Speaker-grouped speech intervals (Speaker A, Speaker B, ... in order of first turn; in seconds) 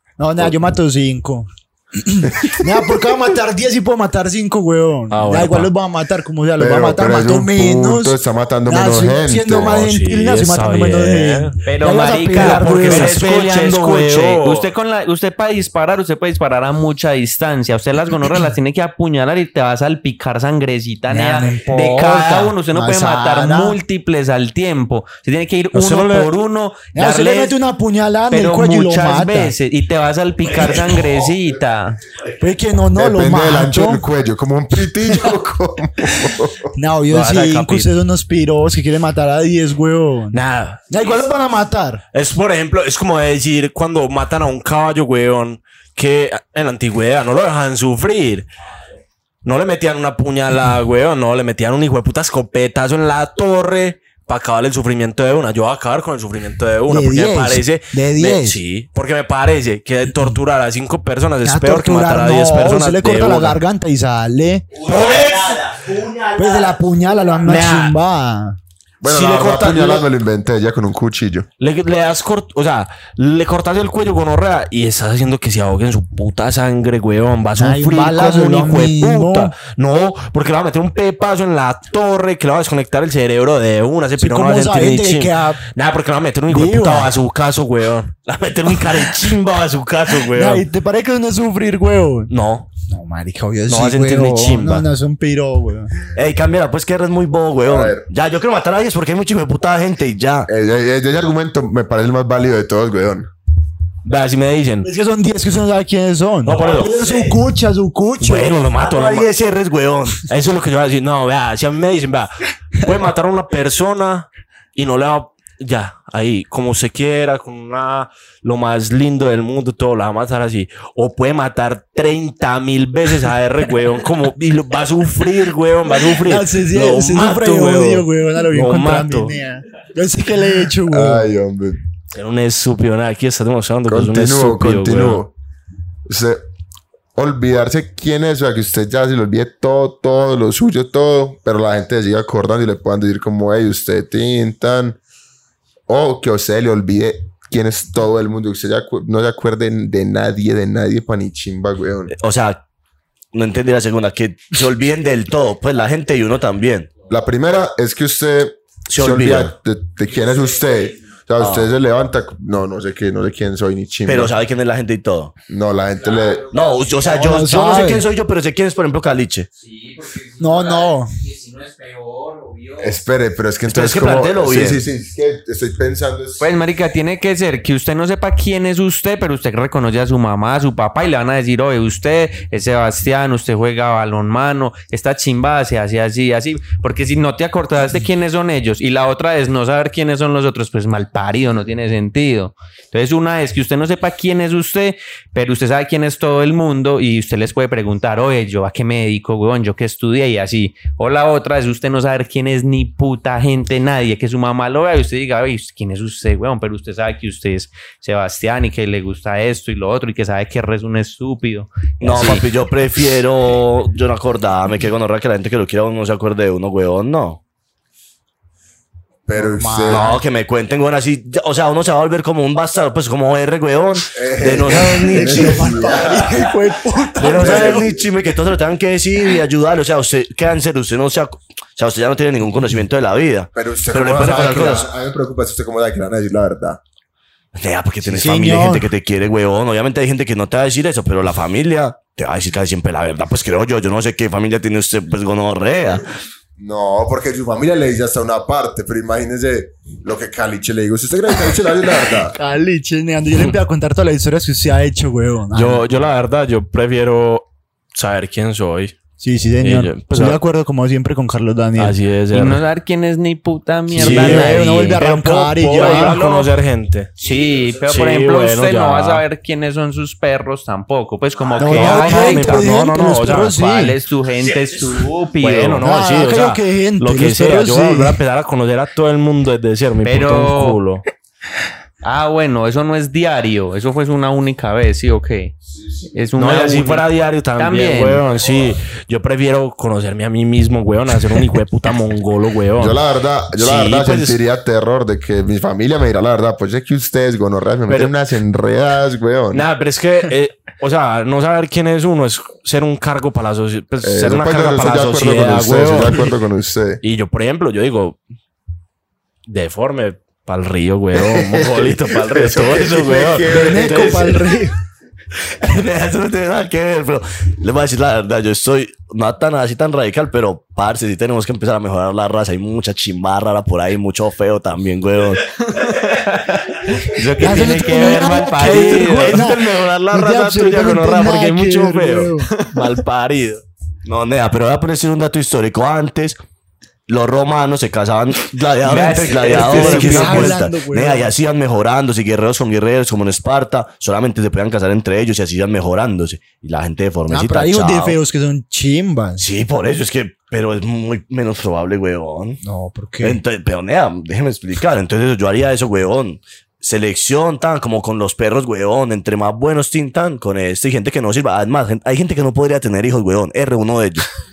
Speaker A: 0.2-13.2, 21.1-23.8, 26.9-29.5, 32.4-34.1, 36.8-42.0, 56.9-58.6, 61.4-64.7, 66.4-68.6, 77.6-79.5, 84.2-85.6, 86.5-87.2, 90.1-92.3, 92.9-96.0, 104.8-108.6, 126.1-131.3, 167.1-168.1, 170.4-171.1, 219.4-220.2, 224.9-227.9, 238.1-238.9, 252.3-255.9, 259.2-262.0, 263.9-266.5, 271.6-274.0, 275.8-278.2, 313.5-314.8, 327.4-332.5, 339.4-341.3, 347.3-349.4, 352.6-353.4
Speaker B: 5.1-5.7, 9.7-11.6, 12.3-14.7, 25.7-26.3, 37.1-37.9, 40.3-40.9, 42.1-48.5, 49.4-63.6, 64.8-65.6, 67.4-68.0, 69.0-70.1, 71.6-90.7, 92.3-92.7, 93.7-94.9, 104.0-104.9, 106.5-106.9, 108.2-109.3, 110.3-129.3, 132.1-135.2, 255.5-259.0, 259.6-260.4, 261.8-262.6, 263.9-267.1, 267.8-269.2, 271.6-273.6, 275.4-281.0, 286.4-293.0, 293.6-294.4, 297.9-298.1, 299.5-306.3, 307.0-308.2, 309.5-314.4, 327.4-333.6, 339.8-340.4
Speaker C: 6.6-9.9, 33.0-36.7, 69.0-71.5, 97.7-98.1, 100.5-103.3, 130.9-131.8, 133.9-135.3, 136.1-136.4, 137.2-145.0, 145.9-152.1, 157.1-164.3, 165.5-166.5, 172.8-176.4, 219.3-220.2, 224.1-226.5, 227.2-228.0, 233.6-236.8, 246.6-252.4, 285.7-286.1, 292.8-299.7, 304.0-307.0, 311.3-314.4
Speaker D: 11.7-27.6, 28.3-32.0, 169.6-173.0, 176.4-212.4, 262.3-265.0, 265.9-266.2, 267.2-275.9, 280.0-280.8, 282.0-285.6, 286.1-288.3, 325.7-329.5, 338.8-340.6
Speaker E: 30.4-31.3, 64.7-66.8, 88.7-89.0, 96.1-100.5, 106.6-107.3, 108.5-110.3, 152.1-152.6, 153.3-156.9, 158.9-159.5, 161.4-161.7, 164.1-165.3, 166.5-169.5, 173.7-174.8, 212.0-217.4, 219.9-226.0, 227.2-234.9, 237.5-246.0, 267.3-267.6, 315.5-325.6, 329.7-330.0, 334.1-336.4, 337.1-348.2, 349.4-352.6, 353.2-364.3